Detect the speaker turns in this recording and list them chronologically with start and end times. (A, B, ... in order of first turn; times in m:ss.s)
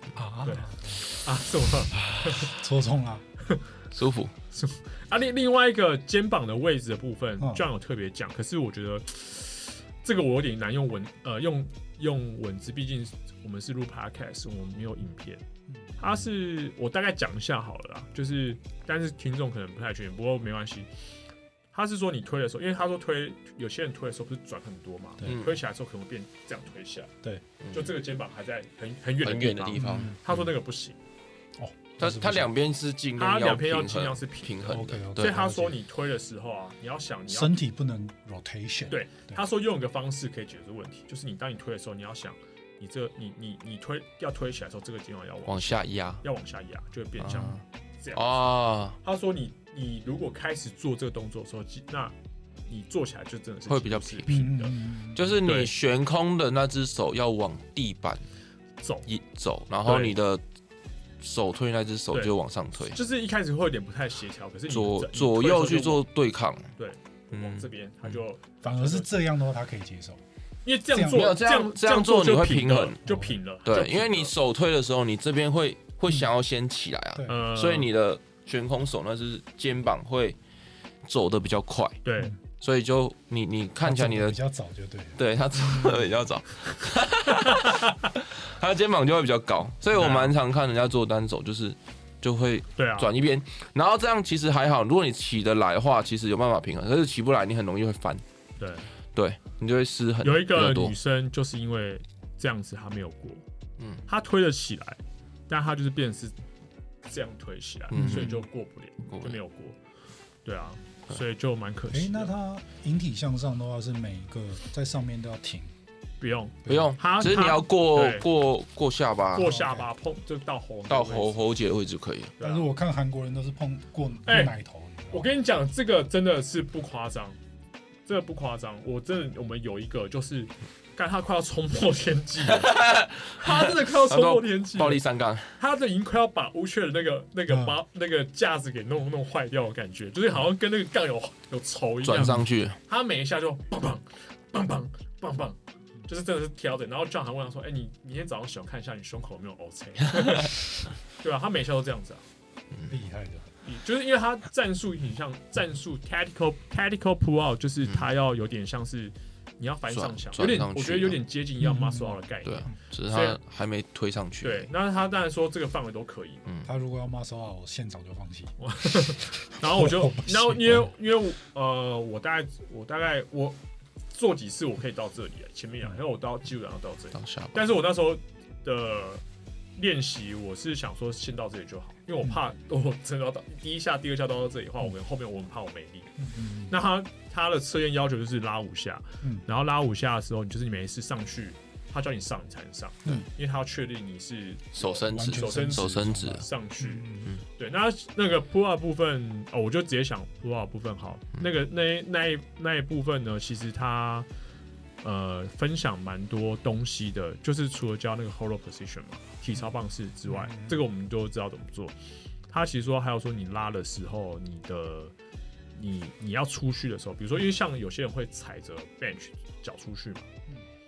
0:00.1-0:01.0 A
0:00.4-0:02.5 B
0:02.3-0:03.2 A
0:03.9-0:04.3 C
0:04.5-0:15.4 B
0:15.7-0:16.1 A
0:16.0-0:20.9 B
0:21.7-0:27.1 B
0:25.2-0:25.6 C
0:27.6-0:27.9 C
0:27.7-0:31.0 B
0:29.2-0:30.2 C
0:29.8-0:30.3 A
0:31.6-0:32.5 A
0:32.0-0:35.4 C
0:33.2-0:37.6 B
0:34.7-0:35.8 A
0:37.3-0:39.4 A
0:38.9-0:52.1 B
0:45.4-0:46.2 C
0:47.2-0:47.6 C
0:48.1-0:49.0 C
0:52.7-0:54.7 B
0:53.7-0:54.5 C
0:54.3-0:55.4 A
0:55.1-0:58.3 C
0:55.4-0:55.7 B
0:58.8-0:59.1 B
0:59.1-1:00.4 C
0:59.8-1:00.2 B
1:01.2-1:03.0 C
1:02.9-1:06.0 B
1:04.7-1:06.7 C
1:06.8-1:09.1 B
1:07.3-1:08.2 C
1:08.6-1:10.2 A
1:10.6-1:14.3 B
1:10.9-1:11.3 A
1:11.1-1:13.0 C
1:13.0-1:13.4 A
1:13.6-1:20.4 C
1:17.2-1:17.9 B
1:21.0-1:22.0 C
1:22.0-1:22.3 B
1:22.6-1:24.4 C
1:23.8-1:26.0 A
1:25.2-1:38.2 C
1:27.4-1:27.9 B
1:29.9-1:30.4 B
1:32.8-1:33.1 B
1:38.6-1:38.9 B
1:39.1-1:41.0 C
1:40.2-1:43.4 B
1:43.8-1:44.0 C
1:44.1-1:46.4 B
1:47.0-1:49.8 B
1:47.9-1:48.4 C
1:47.9-1:48.4 A
1:49.1-1:49.4 C
1:50.4-1:52.3 B
1:51.9-1:55.7 A
1:56.2-1:58.3 B
1:56.6-1:59.6 C
1:59.3-2:01.4 B
1:59.4-1:59.9 A
2:00.9-2:02.3 C
2:02.4-2:02.6 B
2:02.4-2:05.3 A
2:04.2-2:04.5 B
2:05.1-2:07.4 B
2:08.0-2:12.8 B
2:12.5-2:15.6 C
2:13.4-2:15.0 B
2:15.6-2:32.2 B
2:17.5-2:17.8 A
2:22.0-2:22.8 C
2:22.2-2:22.4 A
2:32.7-2:33.0 C
2:32.9-2:33.5 A
2:33.6-2:43.4 B
2:39.9-2:41.2 C
2:41.6-2:42.2 A
2:42.4-2:44.7 C
2:44.4-2:46.4 B
2:46.6-2:48.6 A
2:48.6-2:53.6 B
2:49.6-2:50.8 A
2:54.1-2:59.2 B
2:57.1-2:57.6 C
2:59.8-3:06.1 B
3:06.2-3:06.7 A
3:06.7-3:24.3 B
3:14.8-3:16.5 C
3:15.0-3:17.3 A
3:25.0-3:32.0 B
3:30.3-3:30.8 A
3:32.5-3:35.1 B
3:35.7-3:40.3 B